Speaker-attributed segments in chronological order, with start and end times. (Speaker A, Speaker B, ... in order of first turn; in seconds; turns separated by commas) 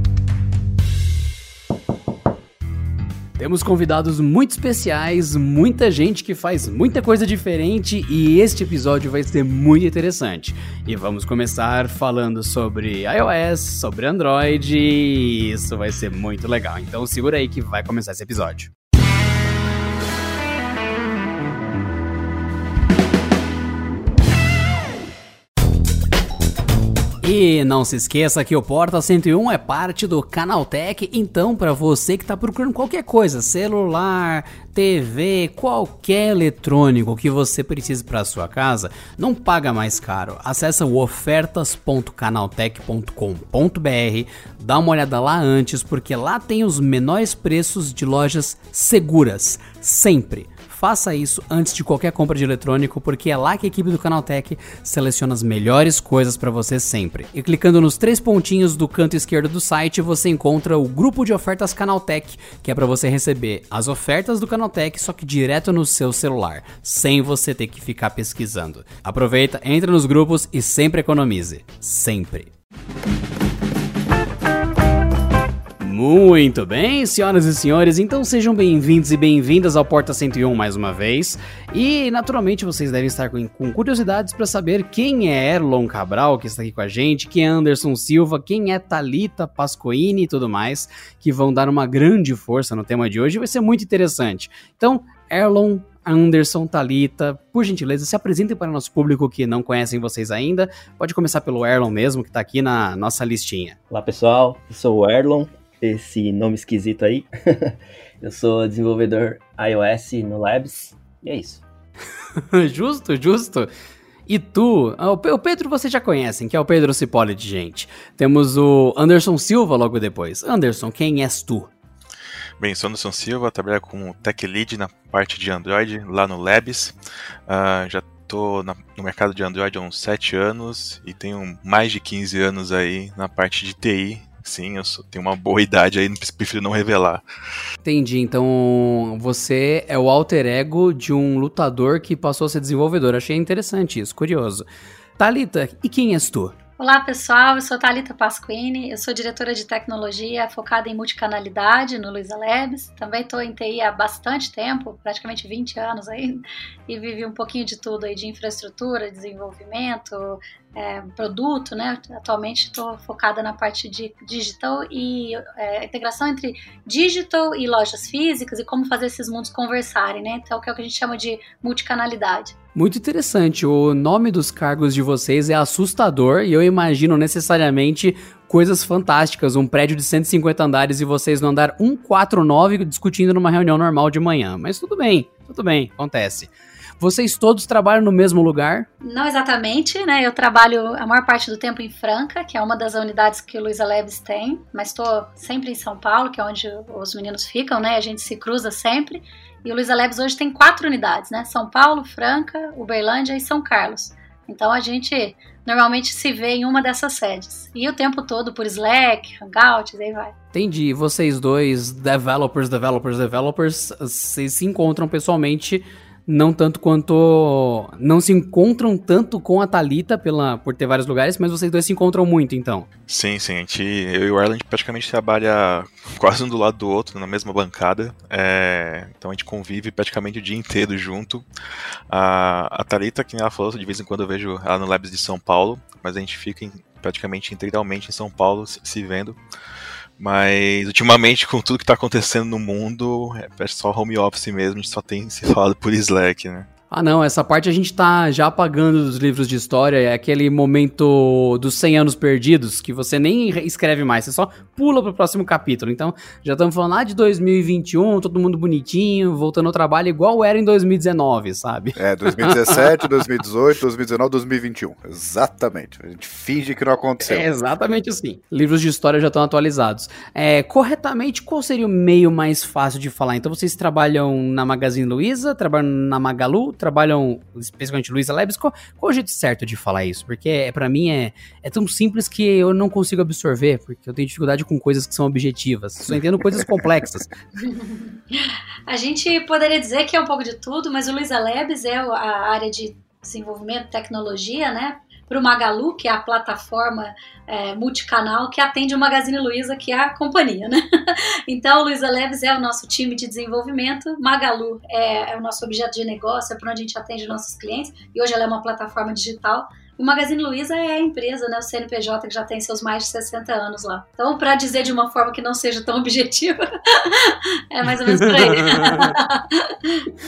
Speaker A: 3.4-18.7, Speaker A: 27.2-72.5, Speaker A: 75.8-103.8, Speaker B: 103.9-111.6, Speaker A: 112.4-113.7, Speaker A: 114.3-121.7, Speaker C: 122.6-127.0, Speaker C: 127.5-137.2, Speaker A: 137.8-144.7, Speaker A: 145.2-146.6, Speaker D: 146.8-172.6, Speaker A: 172.8-188.9, Speaker D: 189.0-210.3, Speaker A: 210.5-222.9, Speaker C: 223.1-231.4, Speaker C: 232.1-239.4, Speaker C: 240.2-246.7, Speaker A: 246.9-262.8, Speaker E: 262.0-267.5, Speaker A: 267.2-287.3, Speaker D: 287.6-320.0, Speaker A: 318.1-319.1